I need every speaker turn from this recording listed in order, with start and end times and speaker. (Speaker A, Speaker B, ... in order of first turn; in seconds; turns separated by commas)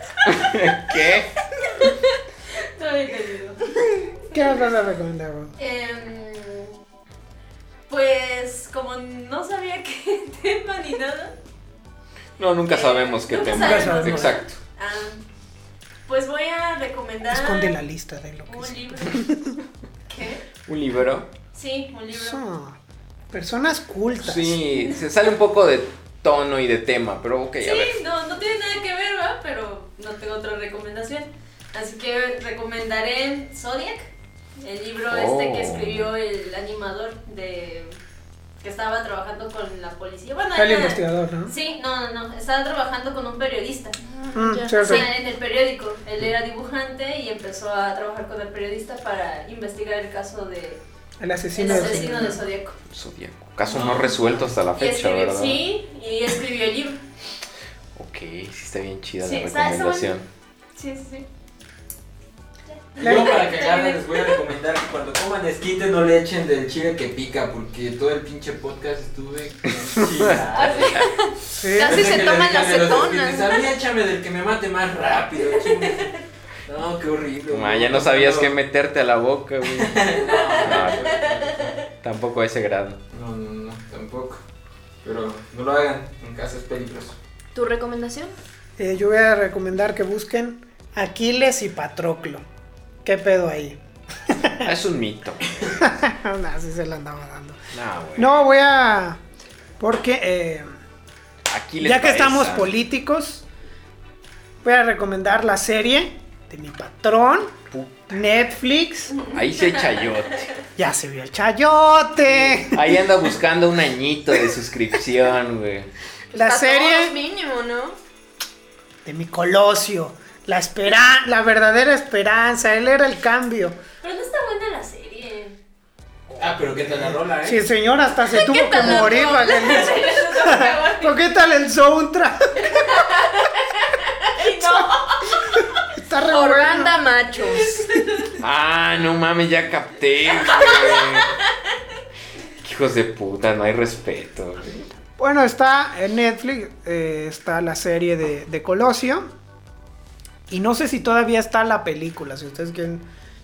Speaker A: 0.2-1.3, Speaker B: 2.5-3.7, Speaker C: 4.3-5.5, Speaker B: 5.6-6.8, Speaker B: 7.9-11.3, Speaker A: 12.4-14.5, Speaker B: 12.7-15.2, Speaker C: 13.5-14.4, Speaker B: 16.1-17.8, Speaker C: 17.3-19.5, Speaker B: 18.5-19.4, Speaker B: 20.1-20.4, Speaker A: 20.6-21.3, Speaker B: 21.5-22.4, Speaker C: 22.1-22.8, Speaker C: 23.3-24.6, Speaker A: 24.2-28.0, Speaker B: 27.6-38.0, Speaker A: 35.1-36.1, Speaker B: 38.6-44.0, Speaker C: 40.5-41.5, Speaker D: 44.0-45.1, Speaker C: 44.3-45.1, Speaker B: 44.8-50.8, Speaker C: 51.2-52.4, Speaker B: 51.5-52.8, Speaker A: 52.9-55.6, Speaker E: 53.7-54.5, Speaker B: 53.7-54.1, Speaker B: 54.7-57.0, Speaker A: 58.0-60.2, Speaker B: 59.2-60.1, Speaker B: 60.8-61.2, Speaker B: 62.7-64.3, Speaker C: 63.0-63.4, Speaker E: 63.0-71.0, Speaker A: 69.8-70.4, Speaker B: 70.5-71.1, Speaker D: 71.0-73.6, Speaker C: 71.6-72.2, Speaker E: 71.8-76.2, Speaker E: 76.7-78.5, Speaker A: 77.5-81.2, Speaker E: 79.7-81.7, Speaker B: 80.3-81.8, Speaker A: 82.0-83.0, Speaker E: 83.1-84.4, Speaker E: 85.0-87.2, Speaker D: 87.5-88.3, Speaker C: 88.8-92.4, Speaker C: 93.0-94.7, Speaker A: 94.6-95.8, Speaker C: 95.7-97.6, Speaker A: 97.7-98.4, Speaker C: 98.2-99.2, Speaker C: 99.8-100.7, Speaker A: 101.5-102.7, Speaker C: 101.8-103.4, Speaker C: 104.6-109.2, Speaker A: 107.7-108.2, Speaker B: 109.1-110.1, Speaker A: 109.2-110.5, Speaker C: 110.8-112.9, Speaker A: 112.4-115.9, Speaker C: 116.3-117.1, Speaker D: 116.3-118.0, Speaker C: 119.0-123.8, Speaker B: 124.0-125.6, Speaker C: 126.3-132.9, Speaker E: 126.3-127.6, Speaker B: 128.4-131.2, Speaker D: 129.1-129.6, Speaker B: 132.6-135.5, Speaker C: 135.9-136.9, Speaker D: 136.3-137.9, Speaker A: 138.4-141.4, Speaker A: 142.6-144.9, Speaker C: 145.2-149.3, Speaker C: 150.5-153.0